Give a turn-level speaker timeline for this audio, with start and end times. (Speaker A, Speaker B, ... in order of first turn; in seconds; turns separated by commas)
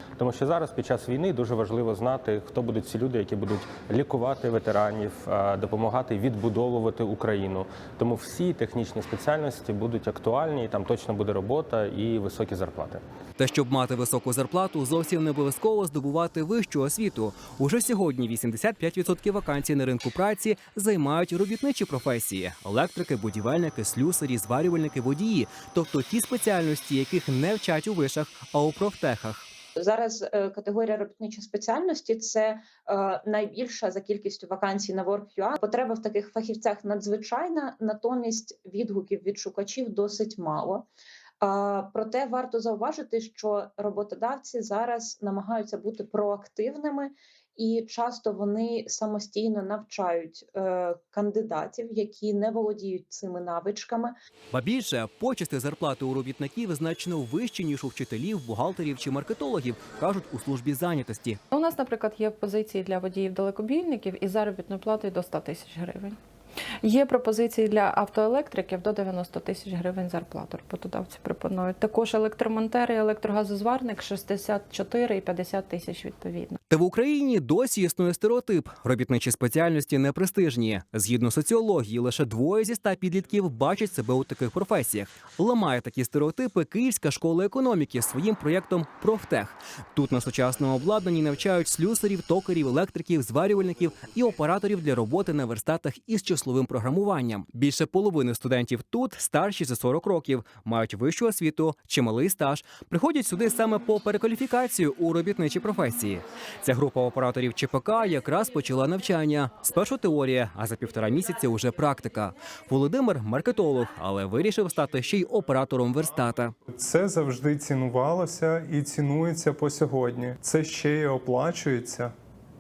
Speaker A: 0.2-13.0, Speaker B: 13.4-29.5, Speaker C: 29.8-40.9, Speaker C: 41.4-54.1, Speaker B: 54.5-61.4, Speaker D: 61.5-66.2, Speaker D: 66.8-76.6, Speaker B: 76.7-116.5, Speaker E: 116.7-122.1